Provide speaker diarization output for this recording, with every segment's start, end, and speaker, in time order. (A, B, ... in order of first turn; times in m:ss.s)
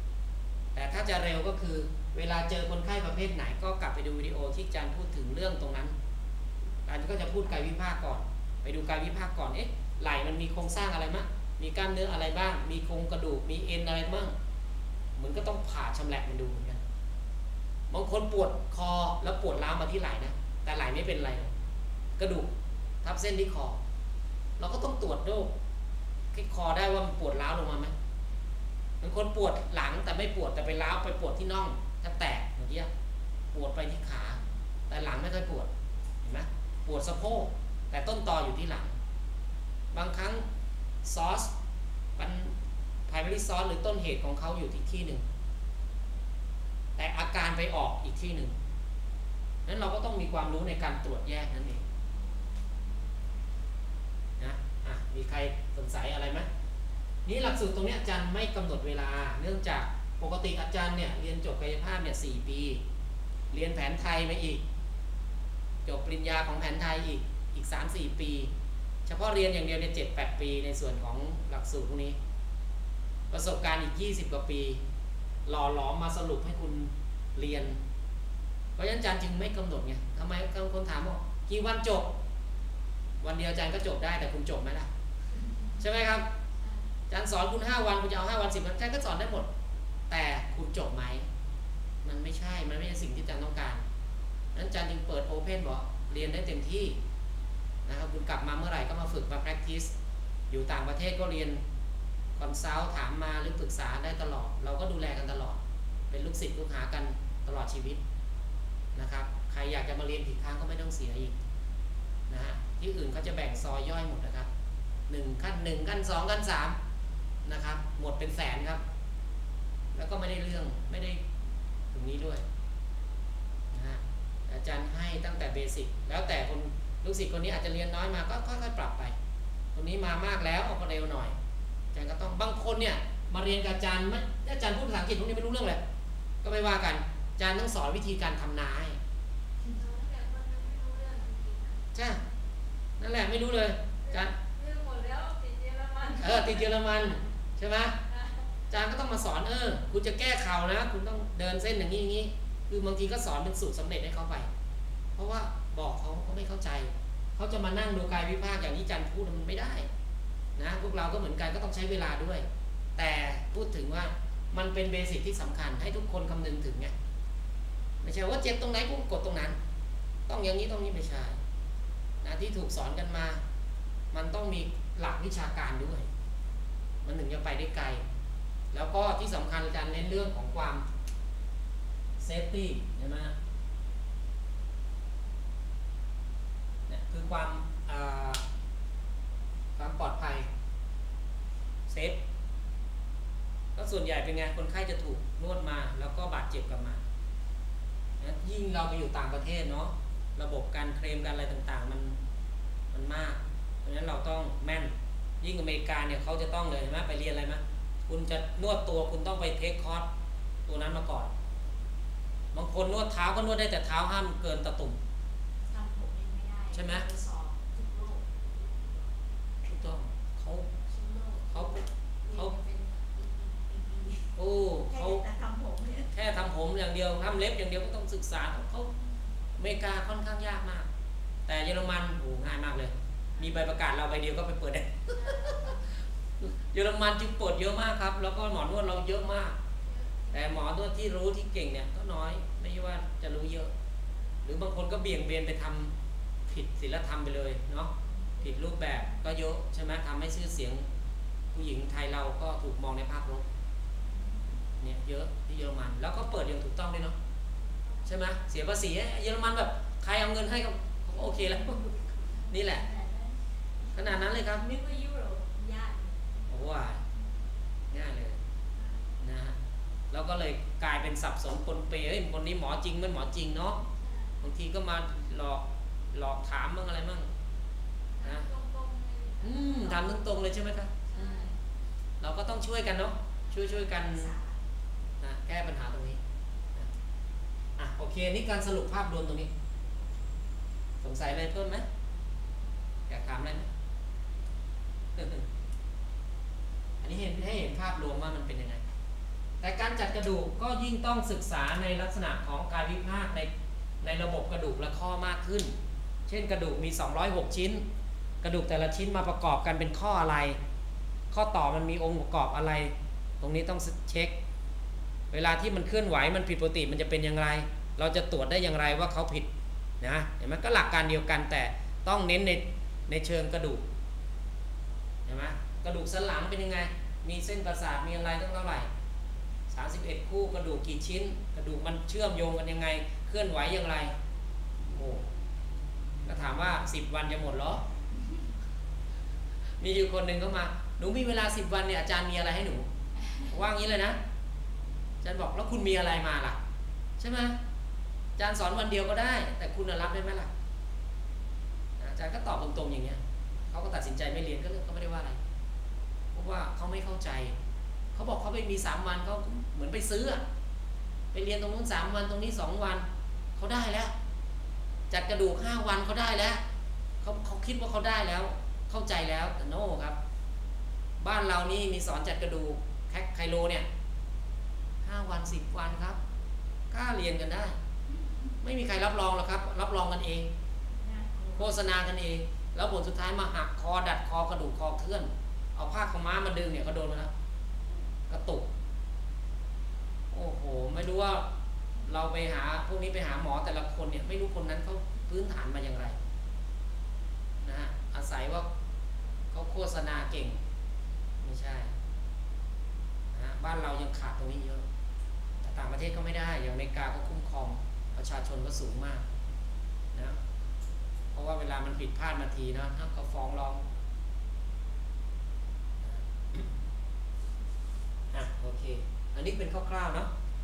0:00.7-0:05.9 A
0:06.8-0:14.3 A
0:15.2-0:16.8 A
0:17.9-0:21.5 A
0:22.2-0:22.5 A
0:23.0-0:23.8 A
0:24.6-0:25.5 A
0:26.3-0:27.9 A
0:29.0-0:32.9 A
0:33.5-0:35.7 A
0:36.2-0:39.0 A
0:39.9-0:40.4 A
0:41.0-0:41.5 A
0:42.2-0:42.5 A
0:43.1-0:45.2 A
0:47.0-0:48.5 A
0:49.6-0:51.8 A
0:54.4-0:56.5 A
0:57.2-1:02.8 A
1:03.5-1:04.6 A
1:05.8-1:08.5 A
1:09.1-1:12.2 A
1:13.3-1:14.8 A
1:15.4-1:17.8 A
1:18.8-1:22.1 A
1:23.2-1:24.9 A
1:25.8-1:26.3 A
1:27.1-1:29.5 A
1:30.1-1:31.3 A
1:32.0-1:33.8 A
1:34.5-1:37.0 A
1:37.8-1:39.9 A
1:40.5-1:41.6 A
1:42.4-1:45.6 A
1:46.1-1:48.0 A
1:48.9-1:51.4 A
1:52.3-1:54.5 A
1:55.1-1:56.8 A
1:57.4-1:58.8 A
1:59.9-2:01.2 A
2:01.9-2:02.4 A
2:03.7-2:09.2 A
2:09.7-2:11.3 A
2:11.9-2:15.8 A
2:16.4-2:19.0 A
2:19.7-2:21.8 B
2:21.9-2:22.2 A
2:23.0-2:24.3 A
2:24.0-2:27.2 B
2:26.2-2:28.0 A
2:28.1-2:28.4 B
2:28.7-2:34.5 A
2:35.2-2:39.9 A
2:40.6-2:42.4 A
2:43.0-2:46.9 A
2:48.0-2:49.6 A
2:50.3-2:51.4 A
2:52.2-2:53.4 A
2:54.1-2:56.1 A
2:57.0-2:58.0 A
2:58.7-3:00.8 A
3:02.2-3:03.3 A
3:06.9-3:08.4 A
3:09.8-3:10.4 A
3:11.9-3:12.2 A
3:13.8-3:17.0 A
3:18.2-3:22.2 A
3:22.9-3:30.1 A
3:30.6-3:31.3 A
3:32.5-3:35.0 A
3:35.7-3:38.3 C
3:36.7-3:37.1 A
3:39.6-3:40.7 A
3:40.9-3:46.1 C
3:41.5-3:42.5 A
3:44.4-3:45.2 A
3:46.1-3:48.9 A
3:49.6-3:50.9 A
3:51.5-3:55.8 A
3:55.1-3:55.8 B
3:56.4-3:59.6 A
3:59.8-4:00.6 B
4:00.3-4:03.7 A
4:04.4-4:05.9 A
4:06.5-4:10.8 A
4:08.1-4:08.7 C
4:11.5-4:13.4 A
4:14.0-4:14.4 C
4:14.8-4:17.2 A
4:18.0-4:21.8 A
4:21.4-4:26.7 C
4:22.5-4:22.8 A
4:23.9-4:24.6 A
4:26.5-4:27.0 A
4:27.9-4:28.4 A
4:29.2-4:29.6 A
4:30.1-4:33.8 A
4:34.0-4:34.3 B
4:34.4-4:37.3 A
4:38.2-4:40.2 B
4:38.2-4:38.5 A
4:39.4-4:41.5 A
4:41.1-4:41.6 B
4:42.2-4:44.3 A
4:43.8-4:44.6 C
4:45.2-4:46.2 A
4:47.8-4:49.5 A
4:51.0-4:51.8 A
4:53.1-4:53.7 A
4:55.2-4:55.4 A
4:57.0-4:58.8 A
4:59.6-5:03.5 A
5:04.0-5:05.7 A
5:06.3-5:07.8 A
5:08.4-5:10.6 A
5:11.3-5:14.3 A
5:15.3-5:19.5 A
5:20.0-5:23.8 A
5:25.2-5:28.9 A
5:29.7-5:34.1 A
5:34.8-5:35.3 A
5:36.2-5:37.8 A
5:39.8-5:44.2 A
5:45.2-5:46.6 A
5:47.2-5:47.6 A
5:48.4-5:50.5 A
5:52.0-5:53.2 A
5:53.7-5:55.4 A
5:56.3-5:57.6 A
5:58.1-6:00.4 A
6:01.3-6:04.1 A
6:05.1-6:06.6 A
6:07.2-6:10.2 A
6:11.2-6:13.9 A
6:15.0-6:16.2 A
6:16.9-6:17.8 A
6:18.6-6:20.5 A
6:20.9-6:21.8 C
6:21.6-6:27.3 A
6:28.3-6:28.7 A
6:30.3-6:31.5 A
6:32.0-6:36.2 A
6:37.6-6:38.7 A
6:39.5-6:40.6 A
6:41.4-6:41.9 A
6:43.3-6:44.8 A
6:45.6-6:49.2 A
6:51.3-6:53.8 A
6:56.0-6:56.7 A
6:58.3-7:00.3 A